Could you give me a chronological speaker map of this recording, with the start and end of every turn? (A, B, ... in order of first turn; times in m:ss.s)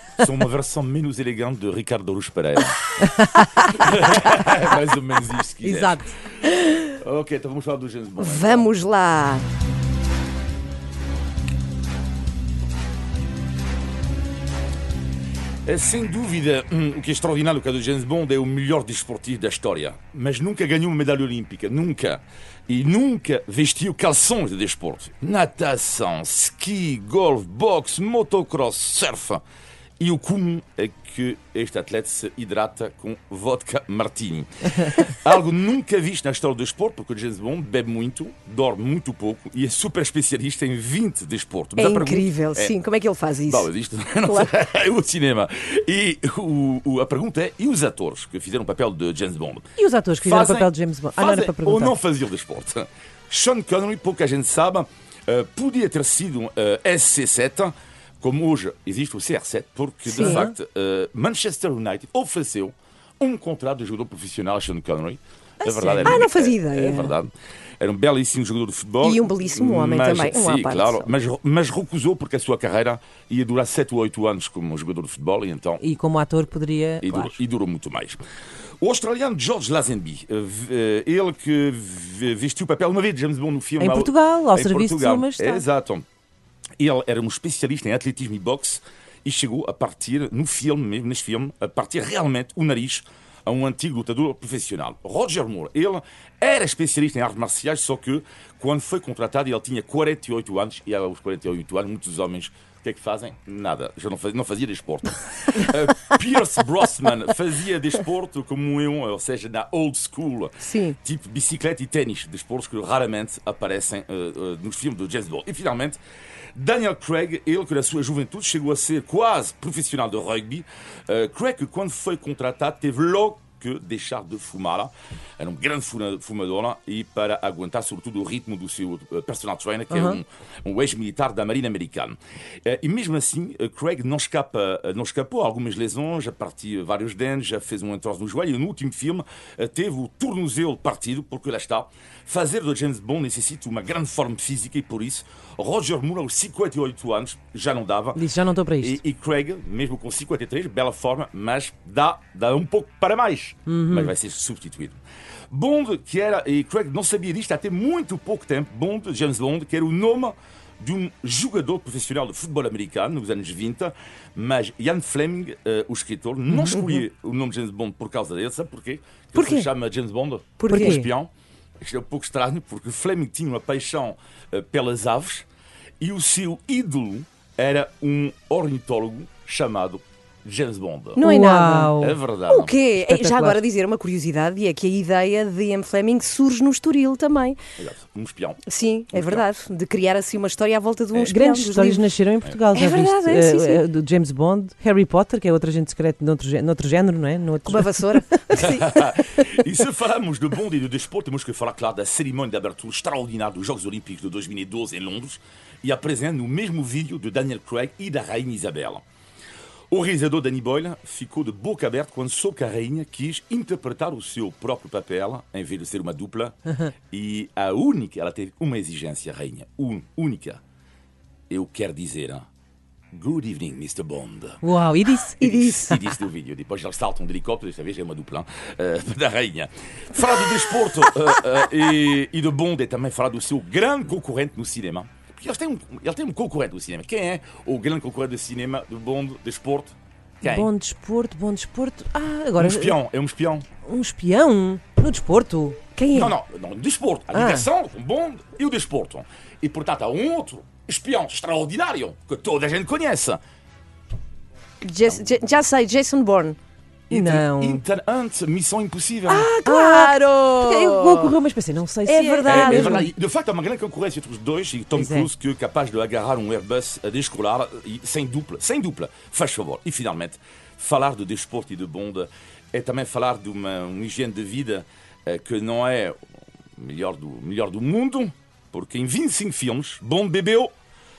0:00.2-0:02.8 A
0:03.6-0:06.1 A
0:05.6-0:06.1 B
0:06.7-0:08.7 A
0:08.2-0:09.4 C
0:15.7-0:29.4 A
0:30.0-0:42.8 A
0:41.8-0:43.7 C
0:43.5-1:15.8 A
0:44.2-0:44.5 C
0:49.8-0:51.9 B
1:00.1-1:00.5 C
1:00.2-1:00.5 B
1:05.6-1:07.2 C
1:05.8-1:06.2 B
1:09.0-1:11.1 C
1:15.8-1:17.4 B
1:17.0-1:18.2 A
1:18.8-1:26.1 A
1:23.8-1:25.7 B
1:26.8-1:56.0 A
1:50.6-1:51.0 C
1:56.6-2:28.2 A
2:09.9-2:10.2 B
2:28.2-2:29.0 B
2:28.8-2:35.0 A
2:33.7-2:34.1 B
2:35.5-2:55.5 A
2:46.5-2:46.8 B
2:49.4-2:49.7 C
2:50.6-2:51.0 C
2:50.7-2:51.1 B
2:56.0-3:01.2 A
3:01.2-3:02.2 B
3:01.2-3:02.0 C
3:02.0-3:02.7 A
3:02.5-3:07.6 C
3:03.0-3:03.6 B
3:07.8-3:09.4 A
3:08.7-3:12.1 C
3:11.2-3:18.6 B
3:12.7-3:13.8 C
3:17.7-3:19.2 C
3:18.6-3:29.0 A
3:29.9-3:36.6 A
3:37.1-3:40.6 A
3:41.5-3:42.5 A
3:43.1-3:44.6 A
3:44.6-3:45.7 B
3:45.4-4:00.7 A
3:45.7-3:46.0 C
4:00.4-4:03.0 B
4:02.6-4:03.7 A
4:03.9-4:05.8 B
4:06.0-4:06.4 C
4:06.1-4:13.4 A
4:07.3-4:07.7 B
4:14.8-4:16.6 C
4:17.1-4:19.5 A
4:17.1-4:17.8 B
4:19.3-4:21.3 C
4:19.6-4:23.1 B
4:22.1-4:23.1 C
4:22.5-4:36.2 A
4:25.0-4:25.3 B
4:36.8-4:40.7 A